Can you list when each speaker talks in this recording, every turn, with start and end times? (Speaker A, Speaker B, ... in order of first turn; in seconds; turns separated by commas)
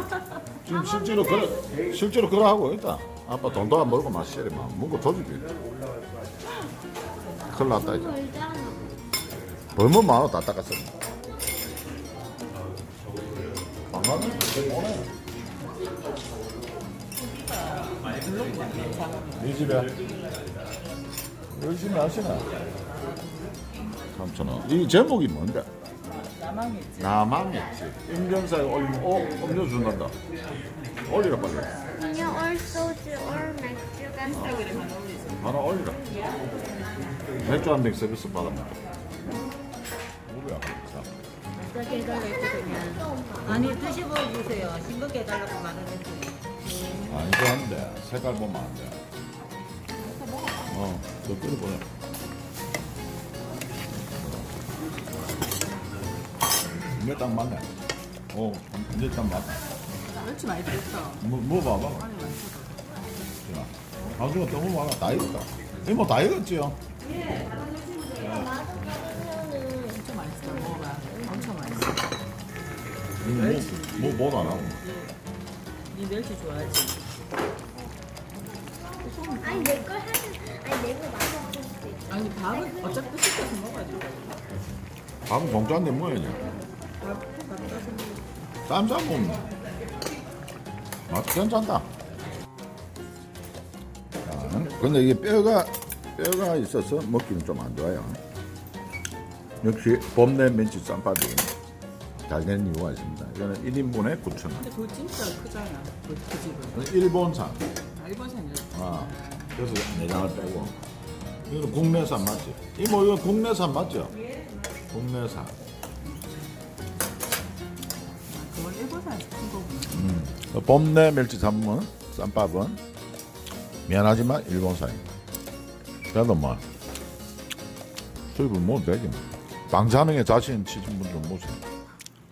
Speaker A: 0.6-5.4, Speaker B: 0.7-1.7, Speaker A: 7.5-8.2, Speaker B: 7.5-9.0, Speaker A: 9.7-10.9, Speaker A: 13.9-15.1, Speaker C: 17.7-19.5, Speaker A: 19.4-19.9, Speaker A: 21.5-22.5, Speaker A: 24.1-25.7, Speaker C: 26.2-27.1, Speaker A: 27.0-30.1, Speaker A: 31.1-31.8, Speaker B: 31.9-34.9, Speaker C: 34.2-35.4, Speaker A: 35.4-36.0, Speaker A: 37.4-38.8, Speaker A: 40.3-41.1, Speaker D: 41.6-46.6, Speaker B: 41.7-44.0, Speaker A: 47.0-49.0, Speaker C: 50.0-50.6, Speaker A: 50.6-51.8, Speaker A: 54.1-54.5, Speaker A: 56.9-57.7, Speaker A: 58.3-59.6, Speaker C: 60.0-62.9, Speaker A: 61.2-62.1, Speaker A: 63.4-66.8, Speaker B: 67.4-71.8, Speaker C: 69.9-72.1, Speaker A: 73.2-74.8, Speaker C: 73.3-74.2, Speaker C: 74.8-75.1, Speaker C: 75.9-77.1, Speaker C: 79.0-79.9, Speaker B: 79.4-83.1, Speaker C: 82.1-84.4, Speaker A: 85.2-86.5, Speaker C: 87.0-88.4, Speaker A: 88.7-89.5, Speaker A: 91.1-91.9, Speaker A: 94.2-98.2, Speaker C: 94.4-95.0, Speaker A: 99.6-101.5, Speaker A: 102.3-104.6, Speaker C: 104.6-106.9, Speaker A: 106.7-107.6, Speaker C: 107.9-109.6, Speaker A: 108.7-110.8, Speaker A: 111.4-114.1, Speaker A: 114.9-115.5, Speaker C: 118.3-120.1, Speaker A: 119.9-122.8, Speaker A: 123.8-125.0, Speaker A: 126.1-126.6, Speaker A: 128.3-131.6